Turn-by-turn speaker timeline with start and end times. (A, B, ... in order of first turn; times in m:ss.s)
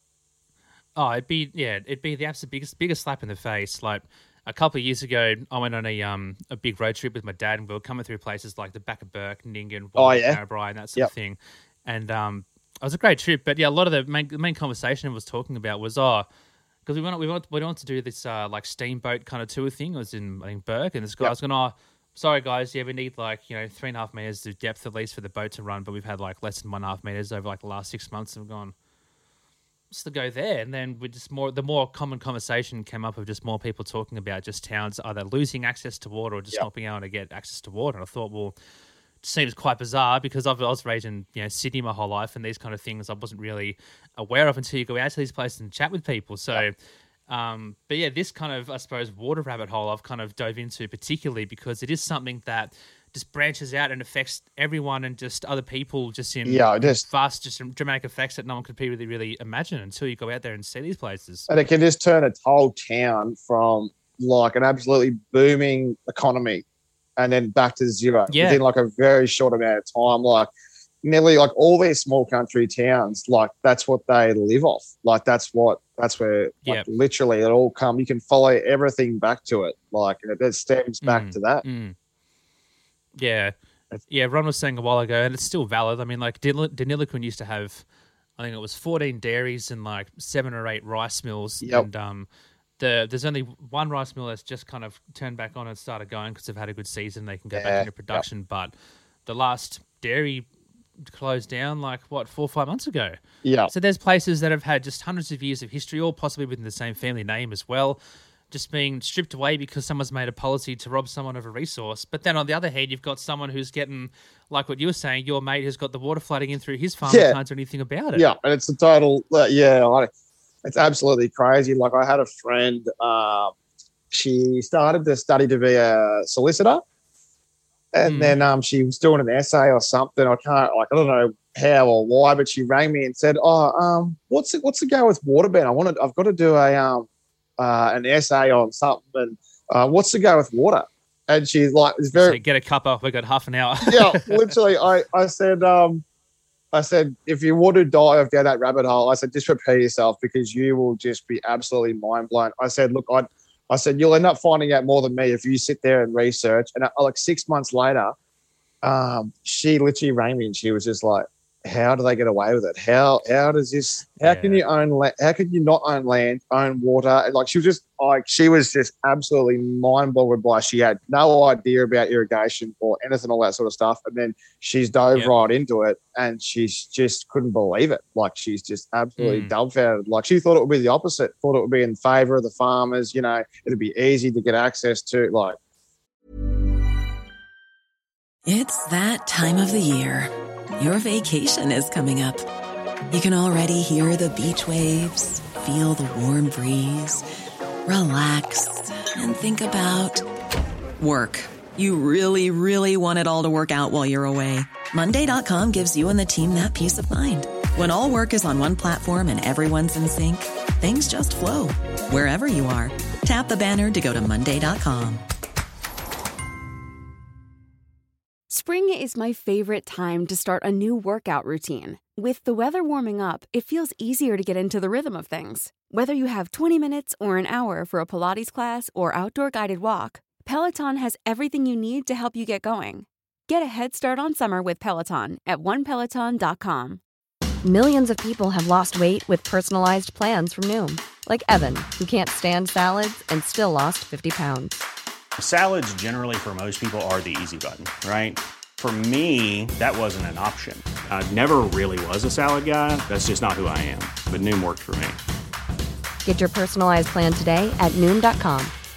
0:01.0-0:16.3 A
0:10.0-0:10.4 B
0:16.9-0:28.7 A
0:29.9-0:38.6 A
0:39.2-0:46.8 A
0:47.3-1:01.5 A
0:56.4-0:57.1 B
1:01.5-1:06.6 B
1:07.2-1:10.5 B
1:08.3-1:08.6 A
1:11.0-1:21.6 B
1:21.0-1:22.0 A
1:23.2-1:23.5 A
1:24.1-1:27.8 A
1:28.4-1:32.3 A
1:31.6-1:31.9 B
1:32.8-1:38.7 A
1:37.6-1:38.2 B
1:39.3-1:40.5 A
1:41.0-1:48.0 A
1:43.4-1:43.7 B
1:48.5-1:58.3 A
1:57.1-1:57.4 B
1:58.1-2:00.1 B
2:00.6-2:03.5 B
2:04.1-2:06.8 B
2:07.9-2:22.4 B
2:08.0-2:08.4 A
2:22.1-2:24.6 A
2:23.8-2:26.0 B
2:26.7-2:38.2 B
2:38.8-3:05.6 B
2:44.2-2:44.6 A
2:59.2-2:59.5 A
3:08.5-3:12.4 C
3:13.1-3:17.2 C
3:17.9-3:20.2 C
3:21.0-3:35.2 C
3:38.5-3:57.0 D
3:57.6-4:04.7 E
4:05.4-4:15.2 F
4:16.2-4:18.7 E